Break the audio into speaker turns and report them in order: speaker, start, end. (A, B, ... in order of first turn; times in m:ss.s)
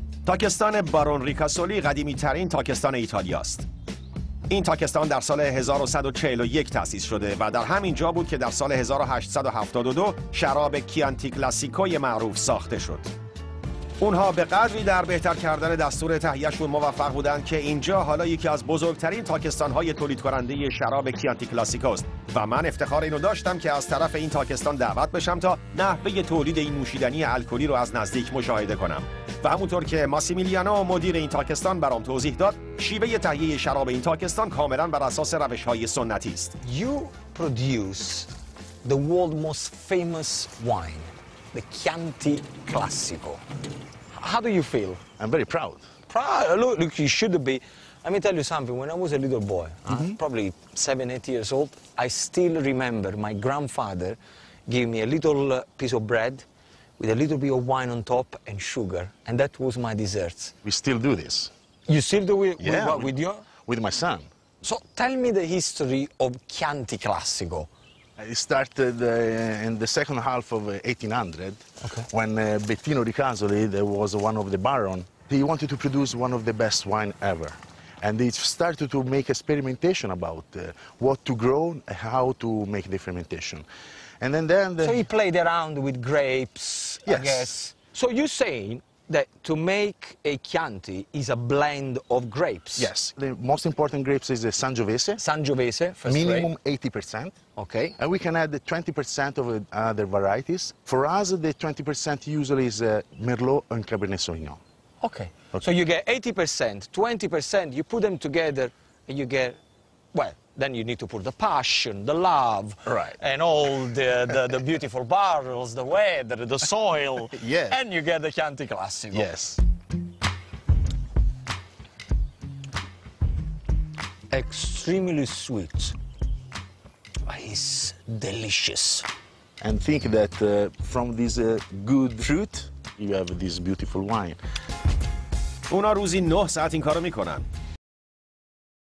0:00.3-0:03.7 A
0:04.5-0:13.1 A
0:14.0-0:36.5 A
0:36.6-0:38.3 B
0:38.8-0:43.4 B
0:44.1-0:45.0 B
0:45.2-0:45.8 C
0:46.1-0:56.4 B
0:49.9-0:50.2 C
0:57.0-1:00.5 B
1:00.6-1:01.5 C
1:01.9-1:03.4 B
1:02.6-1:04.3 C
1:04.6-1:07.7 B
1:08.2-1:23.7 C
1:24.2-1:25.0 C
1:24.8-1:32.9 B
1:27.0-1:27.5 C
1:32.8-1:35.2 C
1:35.2-1:36.5 B
1:36.0-1:37.4 C
1:37.6-1:38.0 B
1:38.0-1:44.6 C
1:45.0-1:49.6 B
1:50.1-1:59.3 B
1:52.9-1:53.2 C
1:57.3-1:57.8 C
1:59.1-1:59.6 C
2:04.3-2:06.0 B
2:07.2-2:09.1 B
2:09.6-2:14.4 C
2:15.7-2:17.4 A